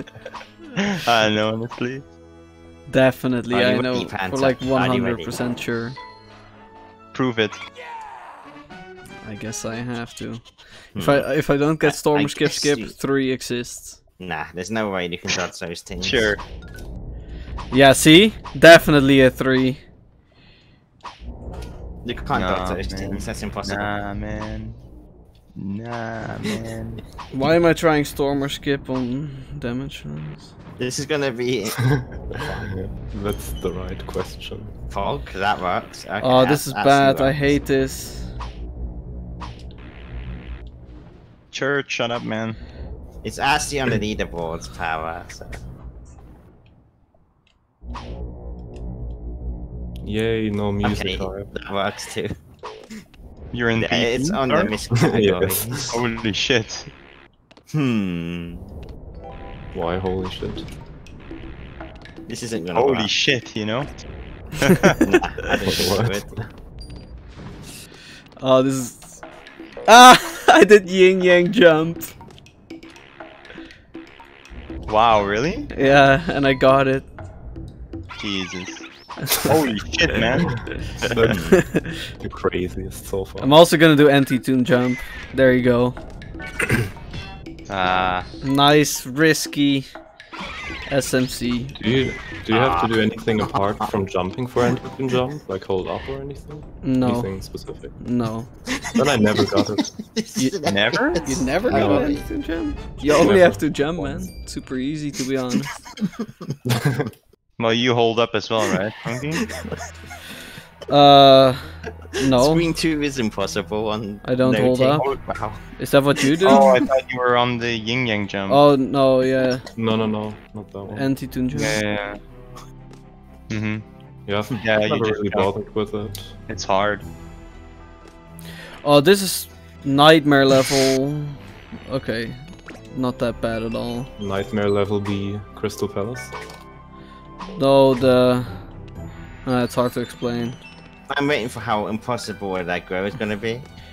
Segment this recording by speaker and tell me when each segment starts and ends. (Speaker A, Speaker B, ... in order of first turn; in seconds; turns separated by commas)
Speaker A: 0.9-2.0, Speaker B: 2.9-6.0, Speaker C: 3.5-5.4, Speaker A: 7.1-7.6, Speaker B: 9.2-14.0, Speaker C: 10.9-12.9, Speaker C: 14.2-16.3, Speaker A: 16.0-16.4, Speaker B: 17.7-19.8, Speaker C: 22.0-23.9, Speaker A: 22.3-24.8, Speaker A: 25.6-27.0, Speaker B: 27.3-30.5, Speaker C: 30.8-32.7, Speaker D: 32.6-34.7, Speaker C: 34.9-37.5, Speaker B: 36.2-38.3, Speaker A: 41.5-42.6, Speaker C: 43.2-45.6, Speaker D: 50.0-51.5, Speaker C: 50.8-52.3, Speaker A: 53.5-54.7, Speaker C: 53.8-55.9, Speaker D: 55.0-56.0, Speaker A: 55.9-56.9, Speaker C: 57.7-58.7, Speaker D: 59.7-60.7, Speaker C: 62.3-63.1, Speaker A: 62.7-63.9, Speaker A: 64.6-65.0, Speaker C: 65.0-66.3, Speaker D: 65.7-66.4, Speaker B: 68.4-69.2, Speaker B: 69.9-72.1, Speaker A: 74.9-75.7, Speaker B: 75.7-77.1, Speaker A: 78.2-80.7, Speaker D: 81.1-81.6, Speaker C: 81.2-81.6, Speaker B: 81.5-82.0, Speaker D: 82.2-83.5, Speaker B: 83.4-86.0, Speaker A: 87.7-88.3, Speaker B: 88.4-89.9, Speaker B: 90.9-91.8, Speaker D: 91.8-98.0, Speaker C: 92.5-93.9, Speaker B: 96.8-98.5, Speaker C: 98.8-102.3, Speaker D: 98.9-99.9, Speaker A: 100.7-101.3, Speaker B: 101.1-105.8, Speaker D: 101.7-102.3, Speaker D: 103.1-104.3, Speaker C: 106.0-106.5, Speaker D: 106.7-107.1, Speaker A: 107.6-109.5, Speaker C: 109.3-109.8, Speaker B: 110.9-112.7, Speaker C: 112.3-115.6, Speaker B: 114.2-115.1, Speaker B: 115.8-116.7, Speaker C: 116.2-116.8, Speaker A: 116.4-118.6, Speaker B: 118.5-119.6, Speaker D: 119.8-121.1, Speaker B: 120.9-121.8, Speaker A: 121.5-122.2, Speaker A: 123.5-123.8, Speaker D: 124.2-126.4, Speaker A: 124.6-125.5, Speaker A: 126.5-127.0, Speaker B: 128.8-134.1, Speaker D: 134.2-136.3, Speaker B: 137.5-138.7, Speaker B: 139.4-140.6, Speaker C: 141.1-143.7